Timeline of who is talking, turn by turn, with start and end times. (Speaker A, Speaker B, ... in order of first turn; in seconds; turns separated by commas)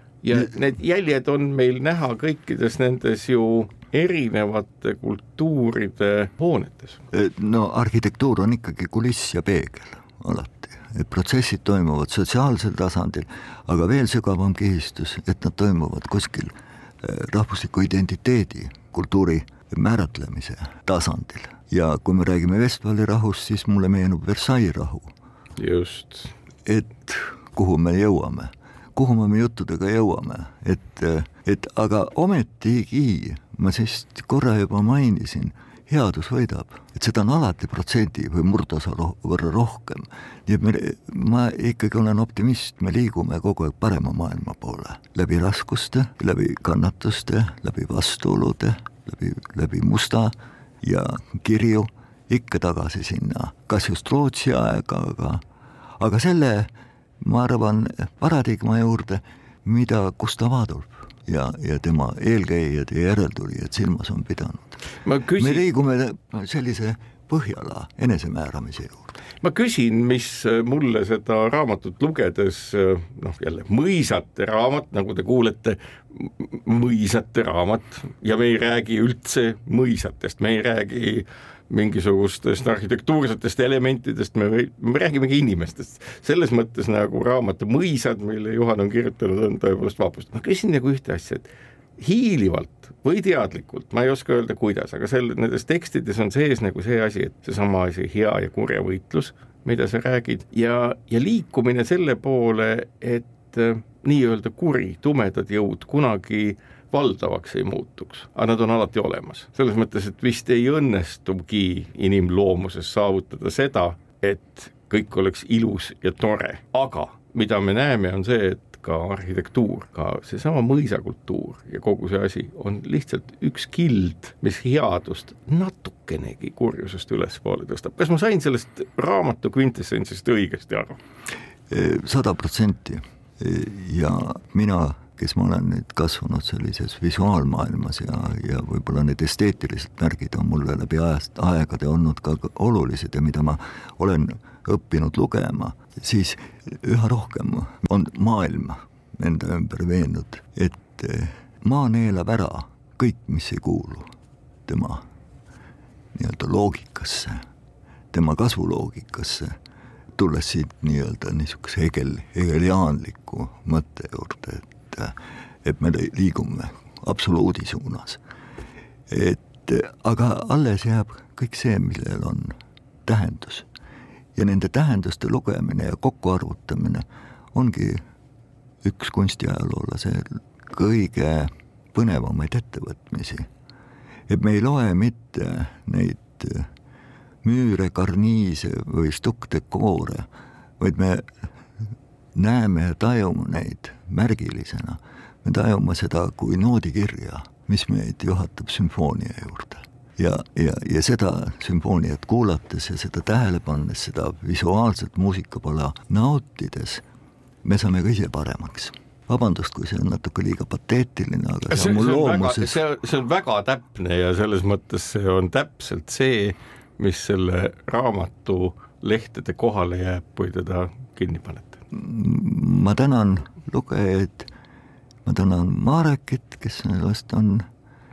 Speaker A: 0.2-7.0, Speaker B: 7.1-25.1, Speaker A: 25.6-26.3, Speaker B: 26.6-55.4, Speaker B: 56.0-64.8, Speaker A: 65.0-65.7, Speaker B: 65.4-69.2, Speaker A: 69.4-131.0, Speaker B: 131.7-154.1, Speaker B: 154.7-155.0, Speaker B: 156.1-157.4, Speaker B: 158.1-159.6, Speaker B: 160.2-168.2, Speaker B: 169.1-173.7, Speaker B: 174.3-178.0, Speaker B: 178.8-183.5, Speaker B: 184.3-186.7, Speaker B: 187.4-190.3, Speaker B: 190.8-207.0, Speaker B: 207.6-212.8, Speaker A: 211.7-221.8, Speaker B: 221.9-224.5, Speaker B: 225.2-227.6